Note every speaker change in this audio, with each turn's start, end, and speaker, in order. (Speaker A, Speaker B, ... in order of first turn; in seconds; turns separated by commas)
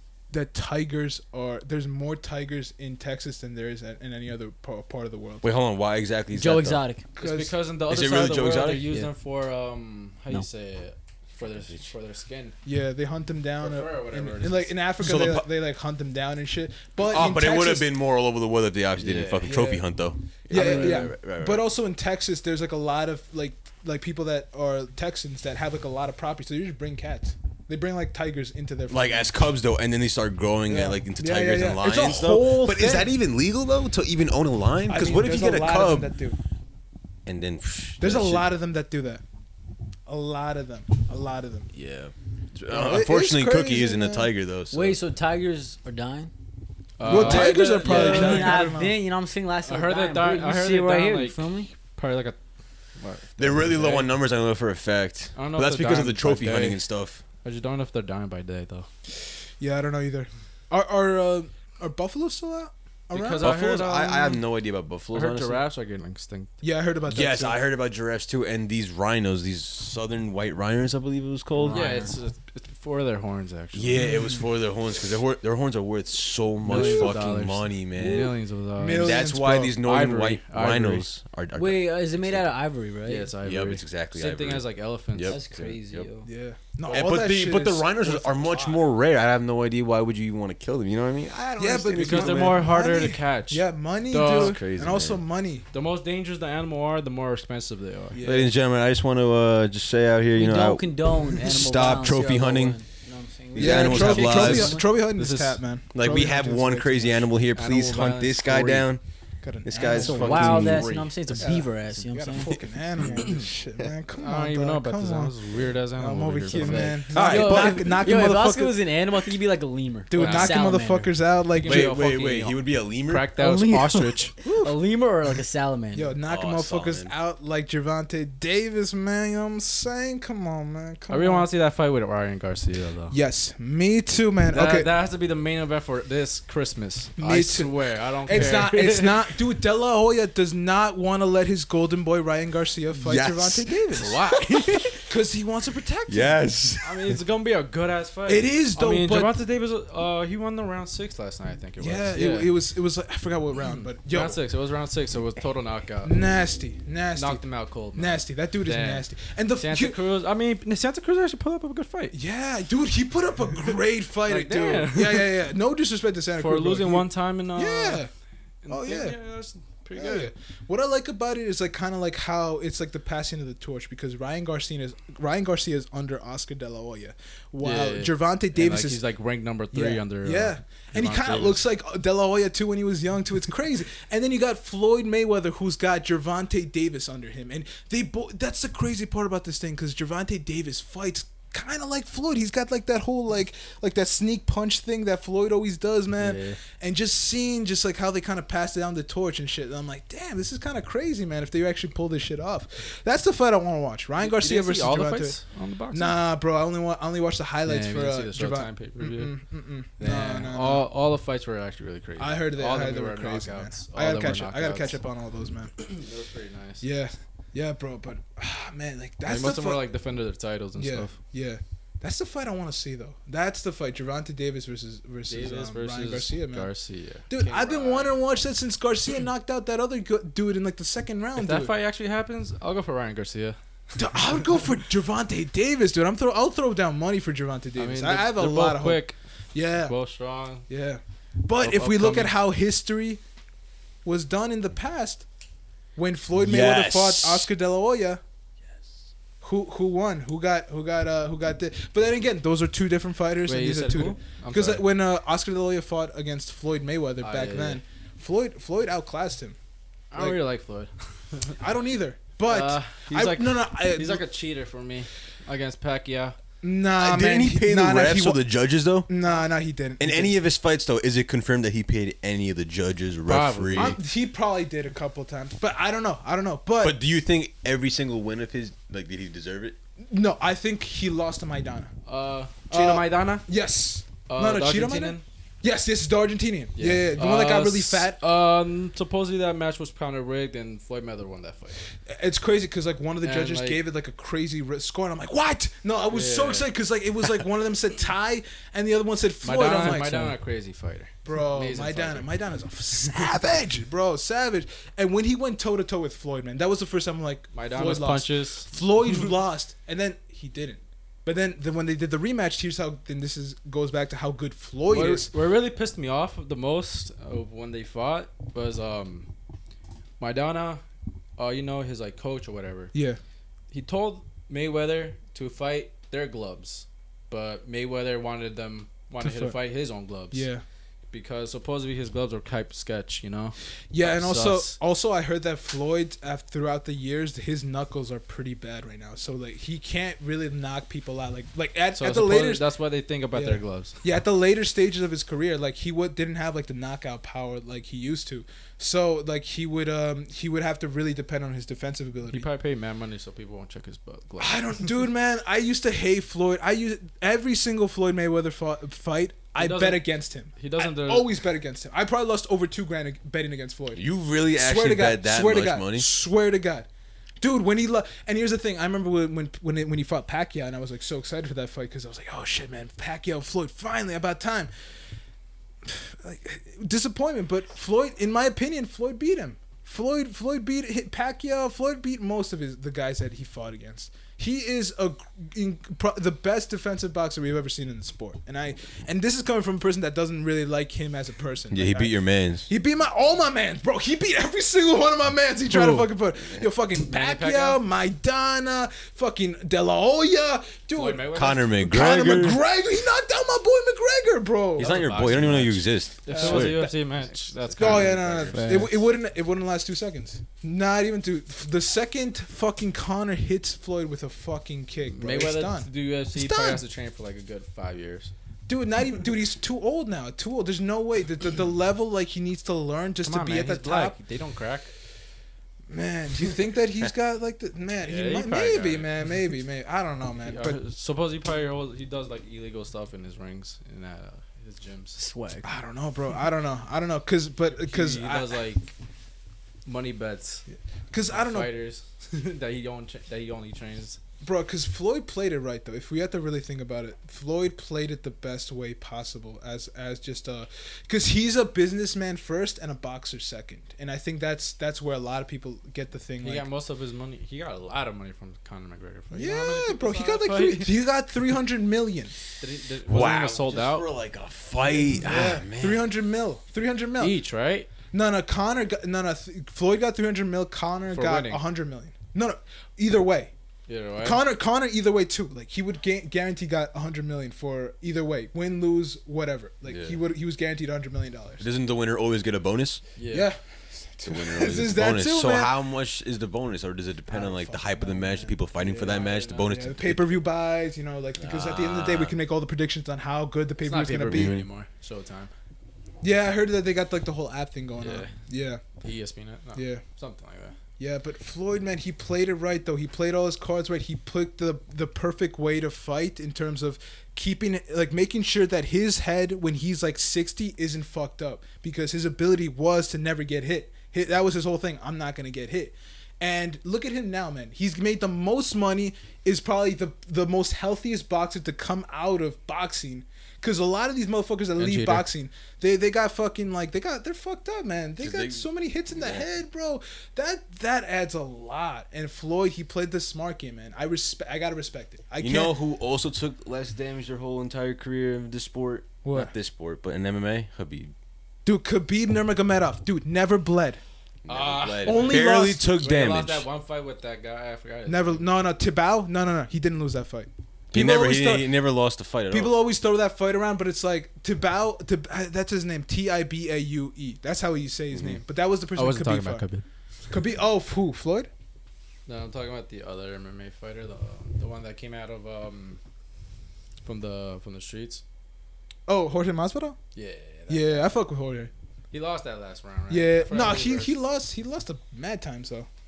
Speaker A: 0.3-5.5, Speaker B: 5.4-6.8, Speaker C: 6.3-7.0, Speaker A: 7.2-7.5, Speaker D: 7.2-12.5, Speaker B: 7.9-9.1, Speaker A: 12.6-17.9, Speaker D: 13.6-14.7, Speaker B: 15.0-15.5, Speaker B: 17.0-21.7, Speaker D: 19.0-19.6, Speaker A: 19.4-19.8, Speaker A: 20.5-29.3, Speaker C: 20.6-21.0, Speaker D: 20.6-20.9, Speaker B: 28.9-36.1, Speaker A: 30.7-33.1, Speaker A: 34.9-36.4, Speaker B: 37.2-38.5, Speaker A: 38.0-39.2, Speaker A: 40.1-41.7, Speaker B: 41.7-45.0, Speaker A: 42.7-44.3, Speaker C: 44.7-46.3, Speaker D: 47.0-48.6, Speaker A: 47.0-48.9, Speaker C: 47.0-51.7, Speaker D: 49.6-52.4, Speaker D: 53.0-54.1, Speaker B: 53.4-57.2, Speaker D: 55.3-56.8, Speaker D: 57.4-58.9, Speaker A: 59.6-63.5, Speaker D: 63.1-64.4, Speaker B: 63.4-65.6, Speaker D: 65.1-66.5, Speaker A: 66.6-67.6, Speaker B: 67.1-72.0, Speaker C: 71.5-72.1, Speaker D: 71.7-74.0, Speaker B: 73.7-78.3, Speaker D: 76.6-81.0, Speaker A: 76.7-77.1, Speaker A: 78.8-79.8, Speaker B: 78.9-82.5, Speaker C: 81.5-83.3, Speaker D: 83.0-85.4, Speaker B: 83.4-86.0, Speaker C: 85.2-86.3, Speaker A: 86.2-88.8, Speaker B: 86.9-92.6, Speaker A: 91.6-95.6, Speaker D: 91.9-94.6, Speaker B: 94.2-95.2, Speaker D: 95.7-98.2, Speaker A: 98.1-98.5, Speaker B: 98.2-102.8, Speaker C: 100.3-104.8, Speaker B: 103.5-104.8, Speaker A: 103.5-107.3, Speaker D: 105.1-105.6, Speaker B: 105.9-109.0, Speaker D: 107.5-108.9, Speaker A: 109.4-110.7, Speaker B: 109.6-111.1, Speaker C: 109.9-112.5, Speaker D: 110.3-111.0, Speaker A: 111.4-115.3, Speaker D: 114.1-117.0, Speaker A: 115.9-118.8, Speaker C: 116.5-121.1, Speaker B: 117.1-117.9, Speaker A: 120.1-121.9, Speaker D: 120.2-120.6, Speaker D: 121.5-124.3, Speaker B: 121.6-123.4, Speaker C: 123.4-126.1, Speaker A: 124.4-124.7, Speaker A: 125.9-131.5, Speaker B: 126.3-127.1, Speaker D: 131.1-133.1, Speaker A: 133.1-134.9, Speaker D: 134.5-139.3, Speaker A: 137.2-137.7, Speaker A: 138.2-144.2, Speaker B: 143.0-144.9, Speaker D: 143.9-144.9, Speaker A: 145.1-146.4, Speaker B: 146.1-147.2, Speaker D: 146.8-152.5, Speaker A: 148.3-149.3, Speaker A: 151.8-154.4, Speaker D: 153.7-156.1, Speaker A: 156.0-157.4, Speaker D: 157.2-162.1, Speaker A: 157.9-160.0, Speaker A: 162.1-168.1, Speaker D: 164.3-165.5, Speaker D: 166.4-168.0, Speaker D: 168.6-170.3, Speaker A: 168.7-169.2, Speaker A: 169.9-179.0, Speaker D: 177.6-181.6, Speaker A: 179.7-205.4, Speaker D: 196.2-196.6, Speaker D: 204.2-206.2, Speaker A: 205.9-210.8, Speaker D: 207.7-209.4, Speaker D: 210.0-215.0, Speaker A: 212.2-215.7, Speaker D: 215.8-216.8, Speaker A: 216.8-219.8, Speaker D: 219.2-221.2, Speaker A: 220.8-226.7, Speaker D: 225.3-228.1, Speaker A: 227.3-231.7, Speaker D: 231.3-233.6, Speaker A: 233.9-239.9, Speaker D: 237.8-239.2, Speaker D: 239.8-240.7, Speaker A: 240.7-243.2, Speaker D: 241.6-242.4, Speaker A: 244.0-245.2, Speaker A: 245.9-248.2, Speaker B: 246.3-247.5, Speaker A: 249.4-259.6, Speaker D: 253.4-254.8, Speaker D: 257.2-257.8, Speaker D: 260.1-261.6, Speaker A: 261.6-264.2, Speaker D: 262.4-266.4, Speaker A: 266.6-268.4, Speaker B: 267.0-269.1, Speaker A: 269.1-270.4, Speaker B: 270.0-274.0, Speaker D: 273.2-274.0, Speaker A: 273.7-277.0, Speaker B: 276.8-279.8, Speaker A: 280.1-281.9, Speaker D: 282.1-283.4, Speaker A: 282.7-288.2, Speaker D: 284.3-285.2, Speaker D: 286.8-291.8, Speaker A: 292.1-300.4, Speaker D: 293.2-293.8, Speaker D: 296.1-296.7, Speaker D: 299.4-302.3, Speaker A: 301.2-315.3, Speaker D: 307.5-309.3, Speaker D: 314.9-319.3, Speaker D: 320.2-320.8, Speaker D: 321.4-322.9, Speaker A: 322.9-323.2, Speaker D: 323.7-330.5, Speaker A: 329.2-329.6, Speaker A: 330.3-330.6, Speaker D: 331.1-334.8, Speaker A: 333.9-342.6, Speaker D: 341.9-344.0, Speaker A: 343.3-352.5, Speaker D: 352.3-355.0, Speaker A: 354.4-366.9, Speaker D: 359.6-361.3, Speaker B: 363.9-366.1, Speaker A: 367.4-374.7, Speaker A: 375.8-392.1, Speaker B: 391.7-392.7, Speaker A: 392.6-405.0, Speaker D: 395.8-396.0, Speaker D: 397.0-397.8, Speaker D: 400.9-401.7, Speaker B: 401.3-402.6, Speaker B: 404.8-406.8, Speaker D: 404.8-408.9, Speaker A: 406.3-406.9, Speaker A: 407.8-416.8, Speaker B: 408.5-408.9, Speaker D: 415.1-418.3, Speaker A: 418.7-424.2, Speaker D: 423.2-424.9, Speaker A: 425.9-430.8, Speaker D: 428.0-429.3, Speaker D: 430.4-435.2, Speaker C: 435.2-435.6, Speaker A: 435.6-438.5, Speaker D: 437.7-438.9, Speaker D: 439.9-440.6, Speaker A: 441.1-441.7, Speaker D: 441.3-444.2, Speaker A: 444.4-456.6, Speaker D: 456.4-461.0, Speaker A: 459.3-462.3, Speaker D: 462.6-464.1, Speaker B: 463.0-466.1, Speaker A: 464.9-467.4, Speaker D: 467.2-467.9, Speaker A: 468.1-473.5, Speaker D: 471.1-471.6, Speaker D: 473.9-474.4, Speaker A: 474.2-481.6, Speaker B: 479.9-480.2, Speaker B: 481.6-483.0, Speaker D: 483.2-483.5, Speaker A: 483.3-485.7, Speaker B: 484.2-490.4, Speaker A: 487.3-494.6, Speaker B: 491.4-492.4, Speaker D: 493.8-495.5, Speaker B: 494.3-494.6, Speaker A: 496.2-498.8, Speaker D: 498.0-498.3, Speaker D: 499.0-500.7, Speaker A: 499.7-500.0, Speaker A: 501.0-535.8, Speaker D: 524.8-525.2, Speaker B: 528.2-529.4, Speaker B: 535.4-541.1, Speaker A: 539.2-539.5, Speaker A: 541.6-544.0, Speaker B: 544.4-546.6, Speaker D: 544.5-548.5, Speaker A: 545.0-545.9, Speaker A: 548.0-551.8, Speaker B: 550.9-552.8, Speaker A: 552.5-559.6, Speaker B: 558.1-558.4, Speaker D: 559.0-559.8, Speaker A: 560.3-561.5, Speaker D: 562.2-566.0, Speaker D: 567.0-568.2, Speaker A: 569.1-570.0, Speaker D: 570.1-571.1, Speaker A: 570.7-571.7, Speaker D: 572.1-574.1, Speaker A: 573.1-575.9